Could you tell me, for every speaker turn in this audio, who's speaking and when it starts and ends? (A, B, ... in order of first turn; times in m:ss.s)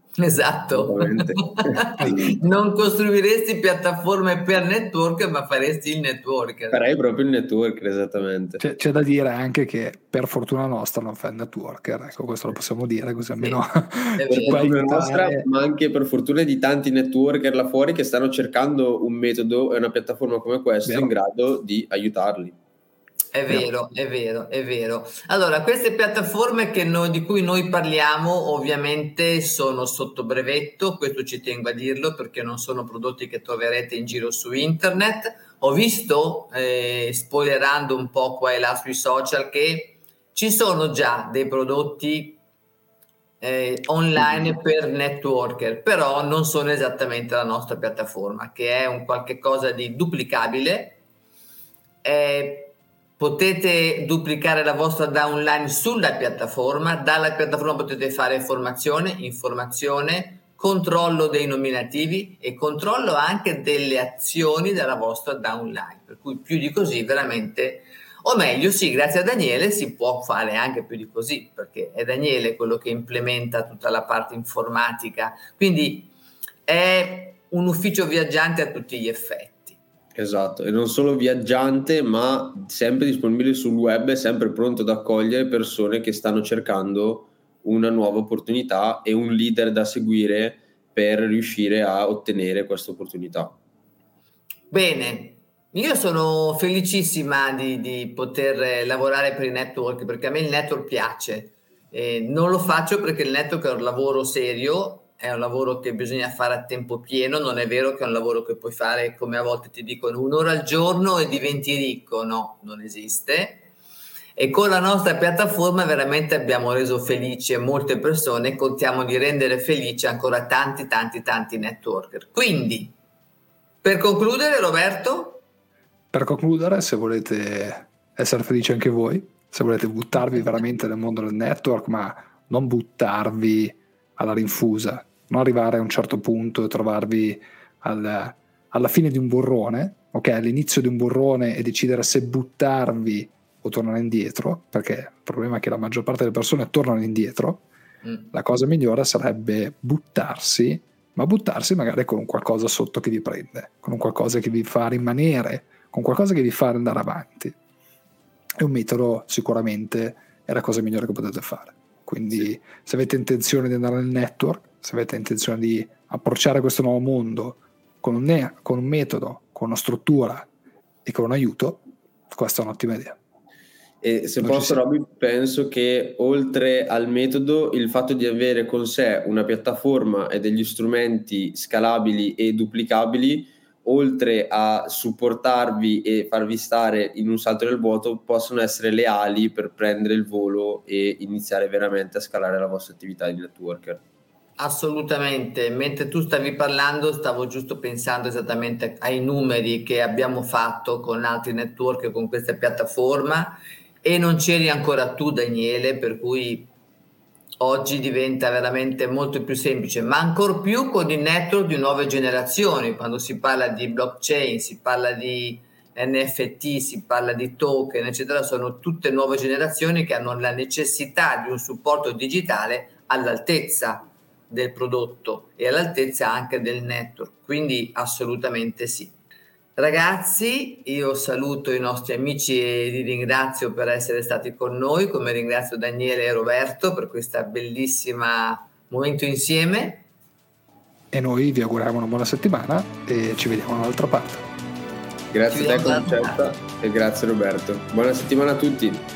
0:00.2-0:06.8 A
0:00.7-0:01.9 B
0:02.0-0:02.3 C
0:06.7-0:08.6 B
0:08.6-0:15.4 C
0:13.4-0:13.6 A
0:14.2-0:15.4 A
0:14.3-0:22.6 B
0:20.9-0:21.1 C
0:23.3-0:42.4 A
0:43.4-0:51.0 A
0:52.0-1:16.1 A
1:16.7-1:19.8 A
1:20.2-1:33.6 B
1:34.7-1:53.7 A
1:54.4-2:02.9 A
2:03.8-2:05.4 A
2:06.1-2:27.6 C
2:28.0-2:28.3 A
2:28.3-2:37.6 C
2:38.6-2:50.5 C
2:51.0-2:53.2 C
2:54.0-3:14.0 B
2:54.4-2:54.8 C
3:14.6-3:26.7 A
3:27.6-3:49.2 A
3:49.8-4:00.1 A
4:01.1-4:04.4 C
4:05.3-4:09.0 B
4:05.5-4:06.4 A